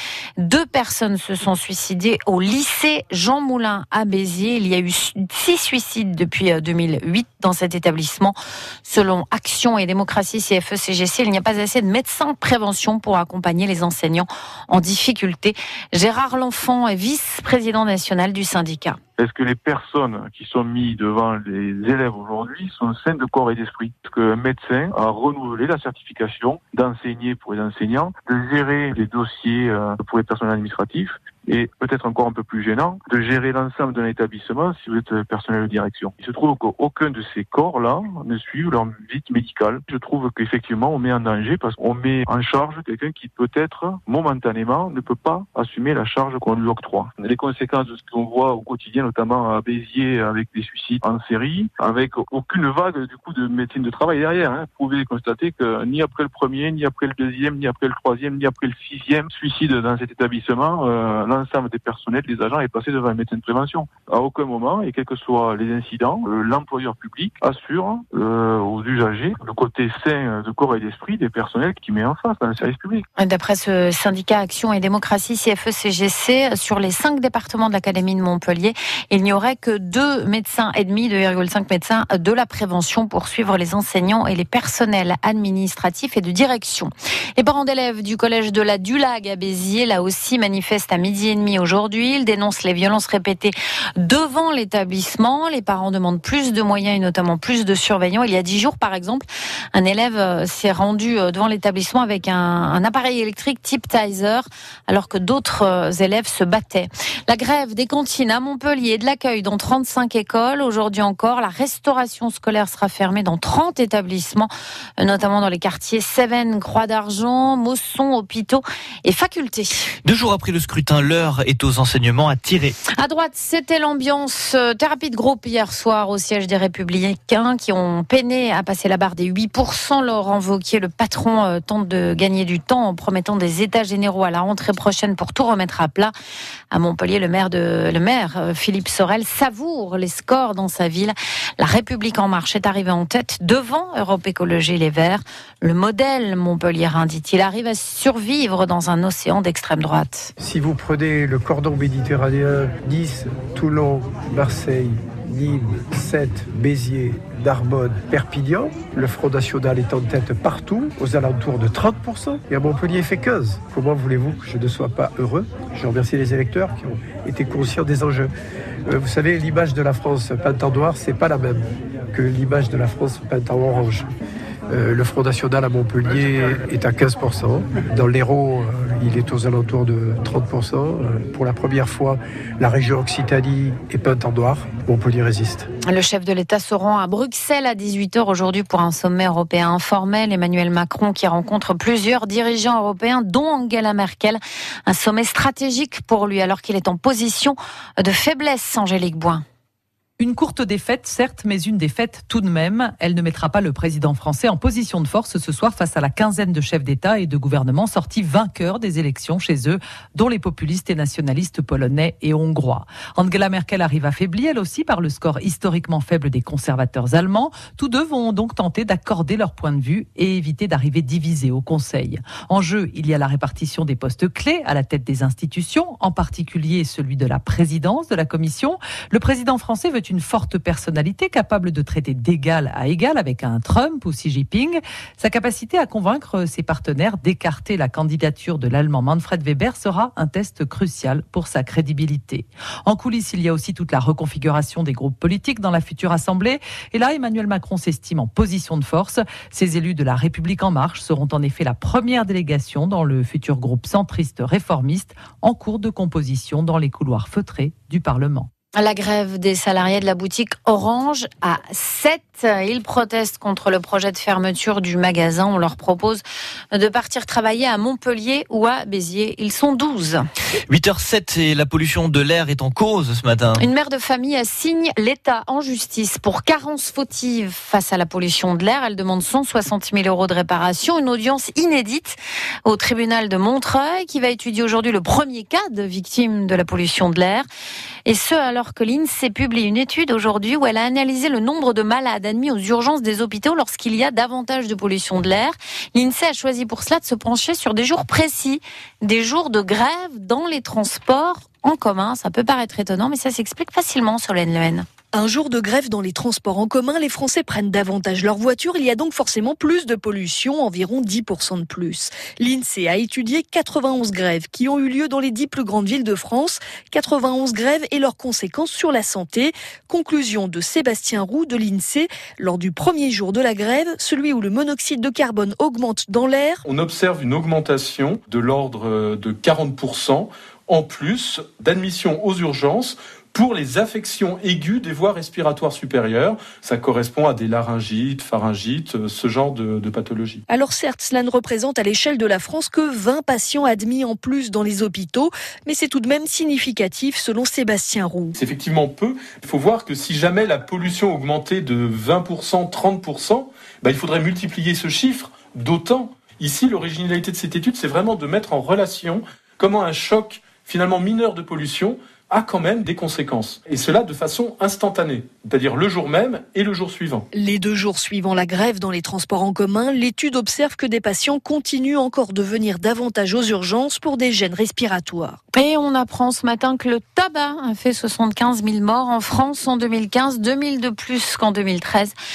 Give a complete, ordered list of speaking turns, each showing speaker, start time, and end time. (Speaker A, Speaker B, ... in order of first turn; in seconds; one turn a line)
Speaker A: 0.4-19.0
Speaker B: 19.2-73.0
Speaker A: 73.2-114.5
Speaker A: 115.0-119.8
Speaker C: 120.0-122.8
Speaker A: 123.0-136.1
Speaker A: 136.7-150.3
Speaker D: 150.4-168.3
Speaker D: 168.8-174.1
Speaker D: 174.7-185.7
Speaker A: 185.8-199.4
Speaker E: 200.2-258.5
Speaker A: 258.8-270.2
Speaker C: 270.7-273.7
Speaker A: 273.6-287.5
Speaker A: 288.1-304.9
Speaker F: 305.1-326.6
Speaker G: 326.6-340.4
Speaker F: 340.5-348.3
Speaker G: 348.3-367.3
Speaker F: 367.3-375.4
Speaker A: 375.5-382.1